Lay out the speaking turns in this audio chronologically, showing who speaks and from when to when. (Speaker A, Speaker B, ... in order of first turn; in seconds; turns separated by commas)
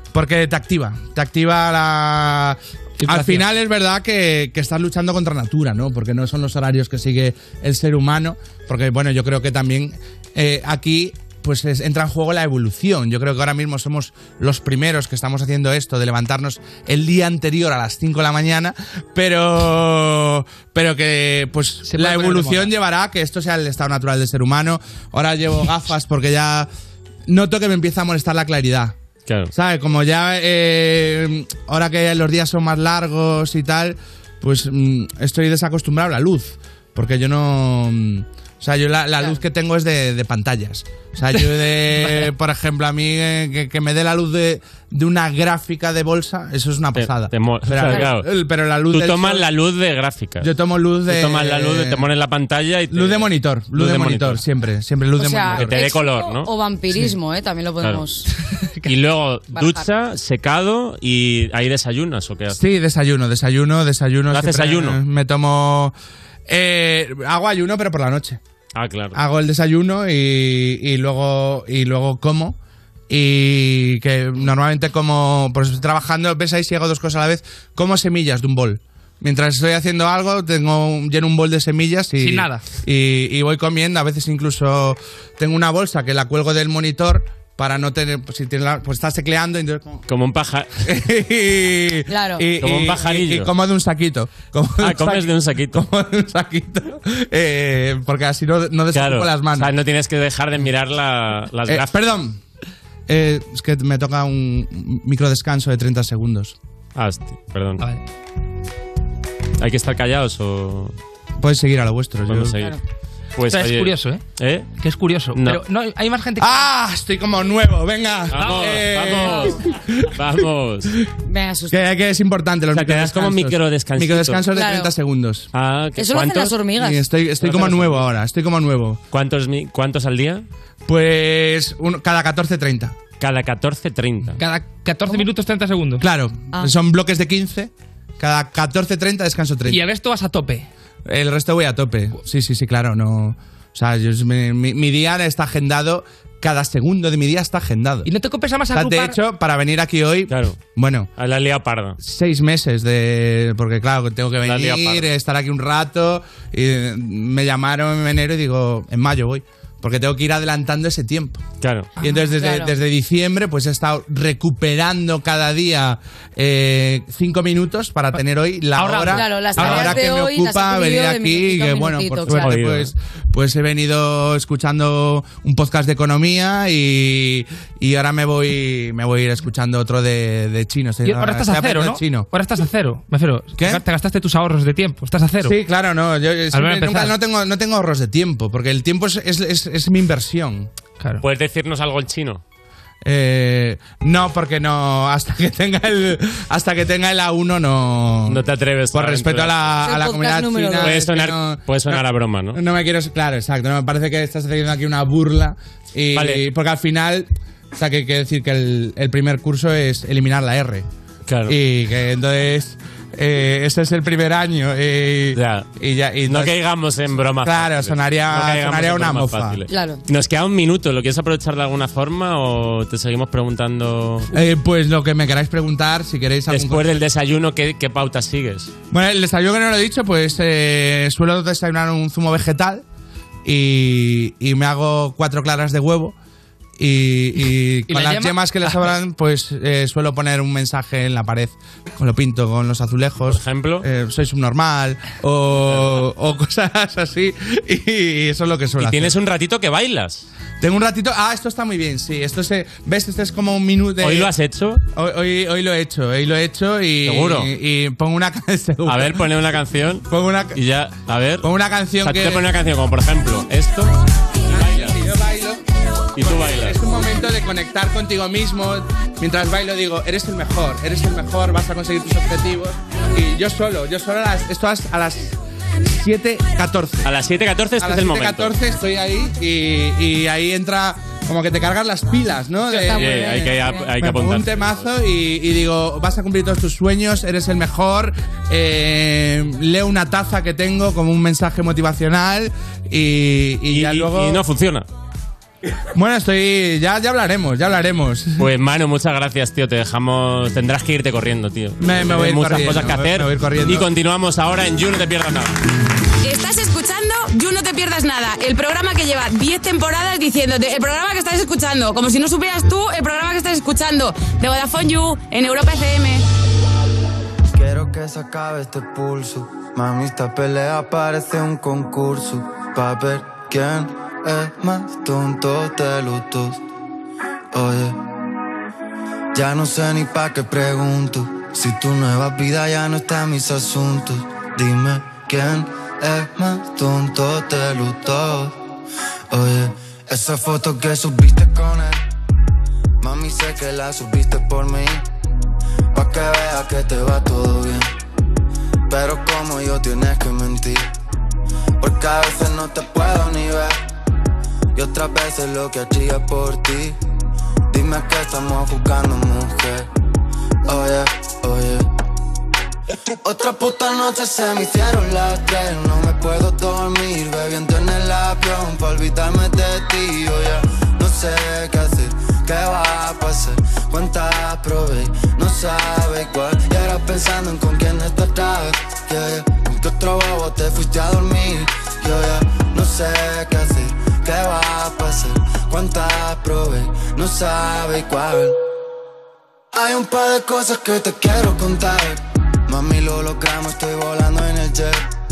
Speaker A: 0.1-26.7, Speaker B: 3.0-3.5, Speaker B: 21.8-22.7, Speaker A: 27.3-29.0, Speaker C: 29.3-29.5, Speaker A: 29.5-49.5, Speaker B: 41.3-42.3, Speaker C: 47.0-48.3, Speaker C: 48.9-50.5, Speaker A: 50.4-52.0, Speaker C: 51.1-54.4, Speaker A: 52.9-55.8, Speaker D: 55.2-58.3, Speaker C: 55.5-56.5, Speaker B: 58.5-58.9, Speaker C: 58.9-62.6, Speaker D: 59.5-59.9, Speaker A: 62.5-65.9, Speaker C: 64.3-65.0, Speaker A: 66.5-68.4, Speaker C: 68.8-69.2, Speaker A: 69.1-72.6, Speaker A: 73.1-90.0, Speaker B: 82.2-82.6, Speaker C: 90.1-90.8, Speaker A: 90.8-99.7, Speaker D: 92.1-92.5, Speaker C: 92.6-93.5, Speaker C: 94.8-95.8, Speaker C: 98.9-101.9, Speaker A: 101.7-102.4, Speaker A: 103.1-106.6, Speaker C: 107.0-107.8, Speaker C: 109.6-110.9, Speaker A: 111.4-112.6, Speaker C: 112.3-112.8, Speaker C: 113.4-114.7, Speaker B: 113.4-114.2, Speaker B: 114.8-116.7, Speaker C: 115.3-115.6, Speaker A: 116.4-119.8, Speaker C: 118.3-120.9, Speaker B: 118.4-118.7, Speaker D: 119.3-119.6, Speaker D: 121.3-121.8, Speaker A: 121.7-125.5, Speaker C: 122.7-124.5, Speaker D: 124.5-124.9, Speaker C: 125.5-126.6, Speaker D: 126.0-127.0, Speaker A: 126.8-129.0, Speaker C: 127.4-128.0, Speaker C: 129.1-130.4, Speaker A: 130.9-133.0, Speaker C: 133.2-134.4, Speaker B: 134.4-136.1, Speaker A: 136.0-139.8, Speaker B: 139.7-140.7, Speaker A: 141.1-148.1, Speaker B: 148.1-149.2, Speaker A: 148.7-151.1, Speaker C: 150.3-150.6, Speaker C: 151.2-152.0, Speaker A: 152.0-161.4, Speaker C: 154.4-155.1, Speaker C: 161.6-161.9, Speaker A: 162.0-182.3, Speaker D: 162.1-162.7, Speaker B: 168.8-170.0, Speaker D: 169.0-172.6, Speaker C: 172.4-172.9, Speaker B: 181.0-185.6, Speaker A: 183.6-183.8, Speaker A: 185.4-190.7, Speaker B: 186.5-187.2, Speaker C: 191.2-192.4, Speaker A: 193.0-210.9, Speaker C: 198.3-199.8, Speaker D: 199.8-201.1, Speaker C: 200.8-202.6, Speaker C: 206.2-206.4, Speaker C: 211.3-211.6, Speaker A: 211.5-216.6, Speaker C: 215.3-215.7, Speaker C: 216.3-224.3, Speaker A: 217.4-219.6, Speaker D: 219.7-220.0, Speaker A: 224.3-226.9, Speaker C: 226.5-228.7, Speaker A: 228.9-232.8, Speaker A: 233.4-236.2, Speaker A: 236.8-249.1, Speaker B: 237.9-238.9, Speaker C: 243.3-243.9, Speaker C: 248.8-250.3, Speaker A: 250.6-254.3, Speaker C: 254.0-254.8, Speaker A: 254.9-259.3, Speaker C: 257.1-257.5, Speaker C: 258.9-261.5, Speaker A: 260.1-260.6, Speaker A: 261.4-262.5, Speaker C: 262.0-263.9, Speaker A: 264.5-265.6, Speaker C: 264.5-264.9, Speaker C: 266.2-266.8, Speaker A: 266.2-277.1, Speaker C: 277.0-278.5, Speaker A: 277.8-294.4, Speaker D: 282.7-283.9, Speaker C: 282.9-284.9, Speaker C: 293.7-294.9, Speaker A: 295.9-298.5, Speaker C: 298.4-305.6, Speaker A: 301.8-303.9, Speaker E: 306.2-316.3, Speaker F: 317.5-326.6, Speaker F: 327.5-328.0, Speaker F: 329.3-338.6, Speaker F: 339.3-342.0, Speaker F: 343.0-345.1, Speaker F: 345.9-347.9, Speaker F: 348.9-350.9, Speaker F: 351.8-353.8, Speaker F: 354.8-357.0, Speaker F: 357.7-359.9, Speaker F: 360.6-361.9, Speaker F: 363.2-388.6, Speaker F: 389.7-395.1